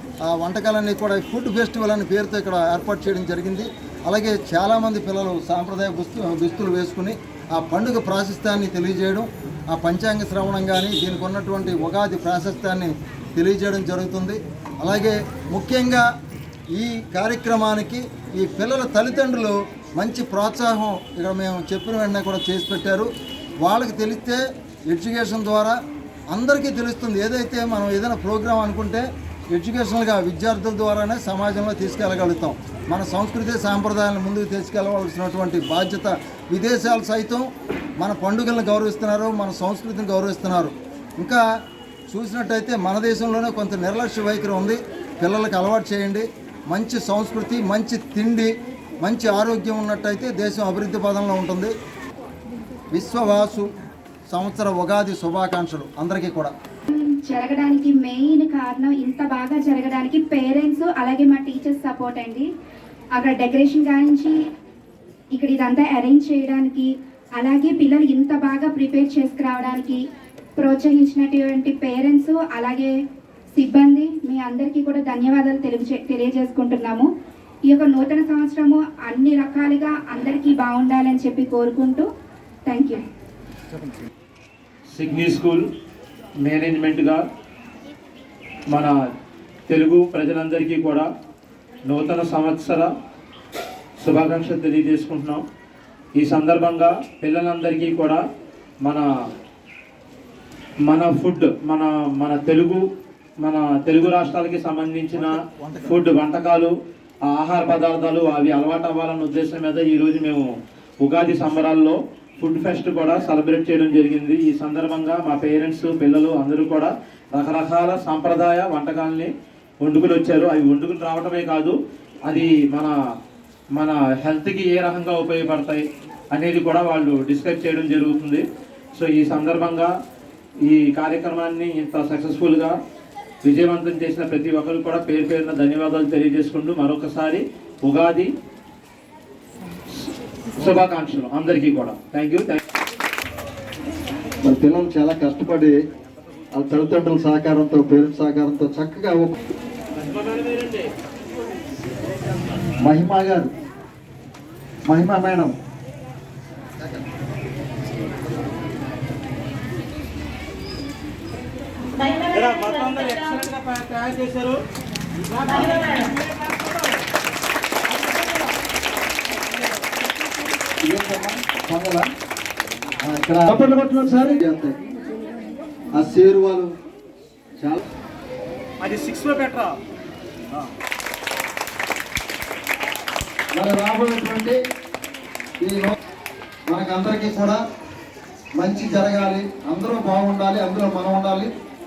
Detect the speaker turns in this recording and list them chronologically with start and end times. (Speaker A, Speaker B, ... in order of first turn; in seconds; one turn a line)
Speaker A: 0.2-16.1
Speaker A: 16.7-23.1
Speaker A: 23.6-25.8
Speaker A: 26.3-37.5
Speaker A: 38.0-41.4
Speaker A: 42.1-48.5
Speaker A: 49.0-51.7
Speaker A: 52.9-53.7
Speaker A: 54.3-56.5
Speaker B: 56.9-62.5
Speaker B: 63.1-64.4
Speaker B: 65.3-70.0
Speaker B: 70.6-72.9
Speaker B: 73.5-77.1
Speaker B: 77.7-82.0
Speaker B: 82.7-83.0
Speaker C: 84.9-85.6
Speaker C: 86.4-87.2
Speaker C: 89.7-91.1
Speaker C: 91.9-92.9
Speaker C: 94.0-95.4
Speaker C: 96.2-98.2
Speaker C: 100.9-102.8
Speaker C: 103.4-106.7
Speaker A: 105.2-105.9
Speaker C: 107.3-110.4
Speaker C: 111.0-119.3
Speaker C: 119.8-121.7
Speaker C: 122.2-122.9
Speaker C: 123.8-128.4
Speaker C: 128.9-129.9
Speaker C: 130.7-132.8
Speaker C: 133.4-138.3
Speaker C: 139.9-142.6
Speaker A: 144.4-145.8
Speaker A: 146.6-149.4
Speaker C: 149.9-150.9
Speaker A: 152.8-153.5
Speaker A: 154.9-155.5
Speaker C: 162.0-164.6
Speaker C: 165.3-166.9
Speaker A: 170.8-172.1
Speaker A: 173.0-174.8
Speaker A: 175.9-176.7
Speaker C: 178.8-179.8
Speaker A: 183.5-184.6
Speaker A: 185.6-185.9
Speaker A: 186.7-187.6
Speaker A: 188.6-191.5